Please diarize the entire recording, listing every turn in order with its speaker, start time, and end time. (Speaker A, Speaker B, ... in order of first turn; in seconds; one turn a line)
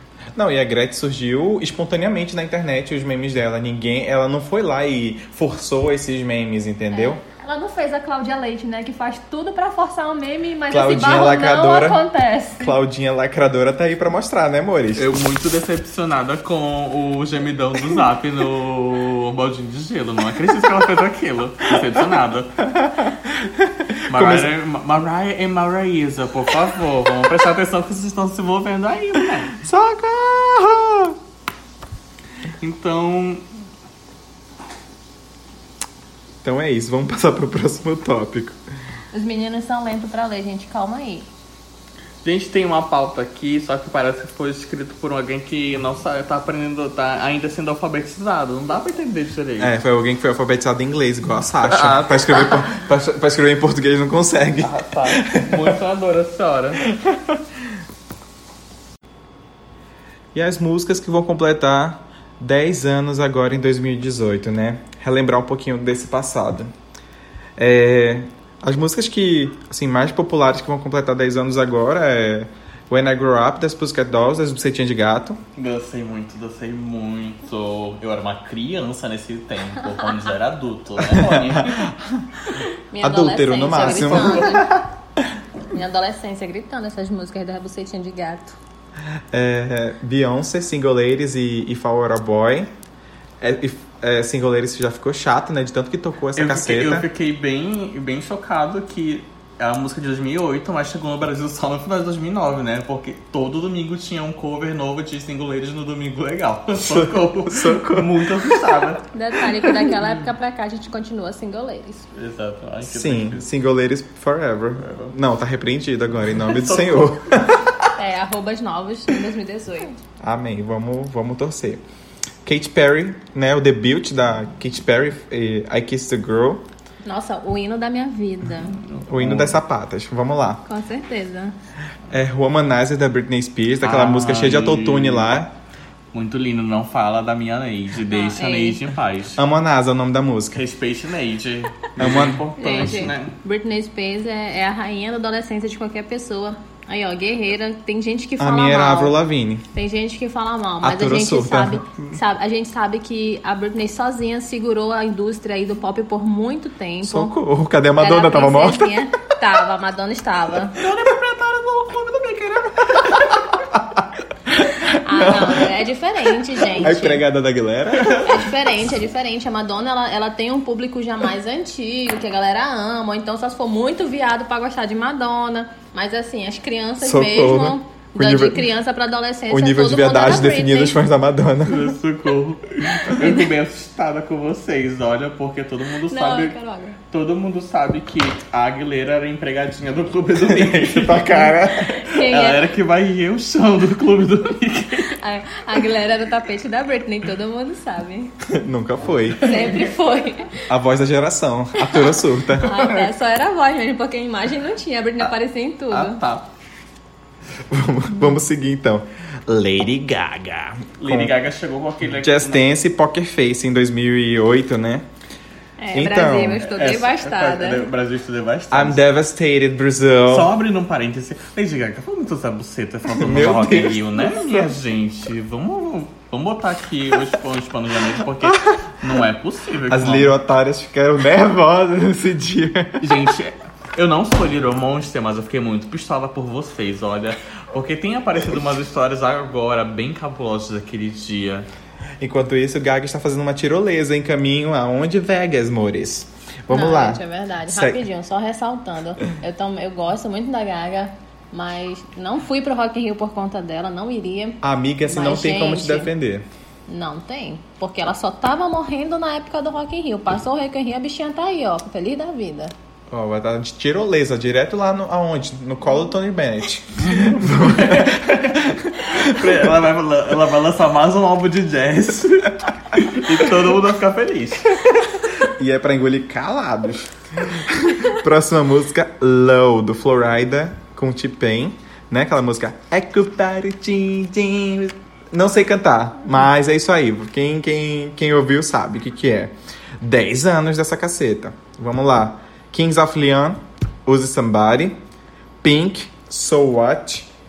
Speaker A: 0.3-7.2
Speaker B: 6.9-12.8
Speaker A: 10.7-12.1
Speaker A: 12.6-15.1
Speaker C: 14.9-22.5
Speaker A: 22.6-24.5
Speaker C: 24.1-29.6
Speaker A: 29.6-31.2
Speaker C: 32.6-33.5
Speaker A: 36.4-38.6
Speaker B: 39.1-41.3
Speaker C: 42.2-49.7
Speaker A: 49.6-55.8
Speaker C: 51.6-52.8
Speaker C: 54.6-56.9
Speaker A: 56.9-57.3
Speaker A: 60.3-66.7
Speaker A: 67.6-75.4
Speaker C: 75.6-81.9
Speaker A: 81.0-82.2
Speaker B: 82.5-84.8
Speaker A: 83.0-84.9
Speaker B: 85.7-88.6
Speaker A: 89.3-92.7
Speaker A: 93.4-97.1
Speaker C: 96.4-109.1
Speaker A: 106.8-108.8
Speaker B: 109.1-112.1
Speaker C: 112.1-113.5
Speaker A: 112.8-117.9
Speaker C: 114.8-115.1
Speaker C: 116.5-117.2
Speaker B: 118.0-120.0
Speaker A: 120.2-121.8
Speaker A: 122.5-126.6
Speaker B: 127.0-128.8
Speaker C: 128.8-129.6
Speaker A: 129.1-130.6
Speaker B: 130.6-131.5
Speaker A: 132.1-135.5
Speaker C: 133.8-135.3
Speaker C: 136.1-139.4
Speaker B: 138.1-138.8
Speaker A: 139.4-140.6
Speaker C: 140.5-143.3
Speaker A: 142.0-143.1
Speaker B: 142.6-149.2
Speaker A: 148.4-149.6
Speaker B: 149.7-157.3
Speaker A: 150.8-152.1
Speaker A: 157.0-159.0
Speaker B: 158.0-160.8
Speaker C: 160.8-163.3
Speaker A: 163.7-164.0
Speaker B: 164.7-167.2
Speaker A: 164.8-165.7
Speaker A: 166.8-168.5
Speaker C: 168.0-168.2
Speaker B: 168.2-181.0
Speaker A: 177.0-178.7
Speaker A: 179.5-182.0
Speaker C: 181.7-186.5
Speaker B: 183.1-183.5
Speaker B: 186.1-187.0
Speaker C: 187.1-195.1
Speaker A: 190.3-192.1
Speaker B: 192.0-192.7
Speaker B: 195.0-198.3
Speaker A: 198.4-199.6
Speaker B: 199.4-200.7
Speaker C: 199.5-199.8
Speaker A: 200.7-202.9
Speaker B: 201.9-206.2
Speaker C: 205.9-206.5
Speaker A: 207.7-211.3
Speaker C: 211.0-212.7
Speaker A: 212.2-215.1
Speaker B: 215.8-217.9
Speaker A: 215.9-216.7
Speaker C: 216.6-219.0
Speaker A: 218.7-220.5
Speaker C: 220.3-230.3
Speaker A: 223.1-224.7
Speaker A: 229.9-233.3
Speaker C: 233.0-241.7
Speaker A: 242.2-248.0
Speaker B: 246.7-256.1
Speaker A: 254.6-256.5
Speaker B: 256.9-262.7
Speaker A: 263.1-269.7
Speaker C: 267.0-275.1
Speaker A: 275.4-294.9
Speaker A: 295.6-297.3